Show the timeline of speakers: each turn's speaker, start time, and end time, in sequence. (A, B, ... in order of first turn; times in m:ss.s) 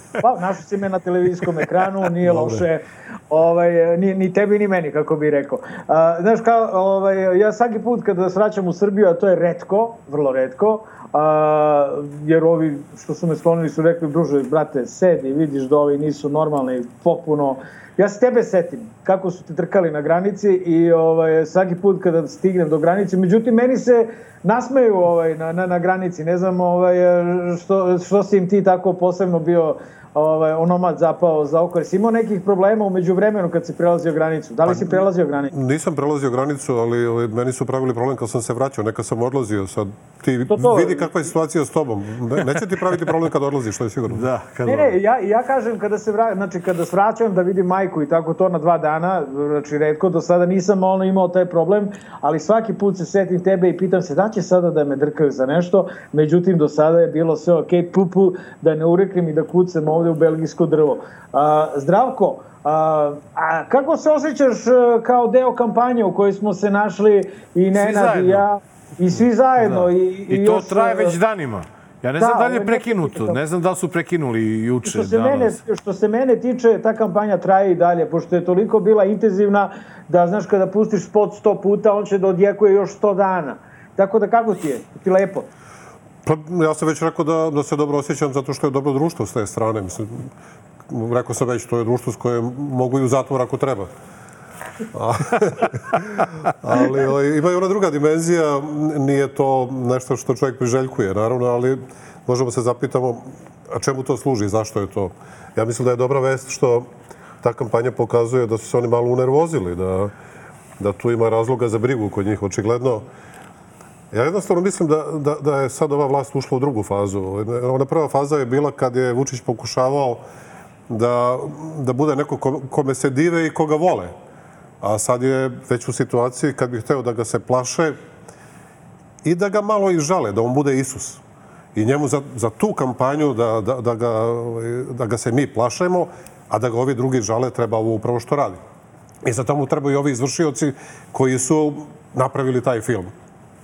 0:00.2-0:35.5 A
0:34.6-0:44.3 B
0:40.5-0:41.1 A
0:44.1-0:44.9 C
0:44.6-1:11.2 A
1:07.7-1:08.4 C
1:09.6-1:15.6 C
1:12.2-1:13.4 A
1:14.8-1:25.5 A
1:26.2-1:30.3 B
1:30.9-1:33.9 B
1:34.9-1:36.0 B
1:36.6-1:46.9 B
1:47.4-1:50.1 B
1:50.8-1:53.0 B
1:54.1-2:00.2 B
2:00.9-2:04.1 B
2:04.8-2:08.0 B
2:09.2-2:11.2 B
2:11.7-2:18.6 B
2:19.2-2:23.1 B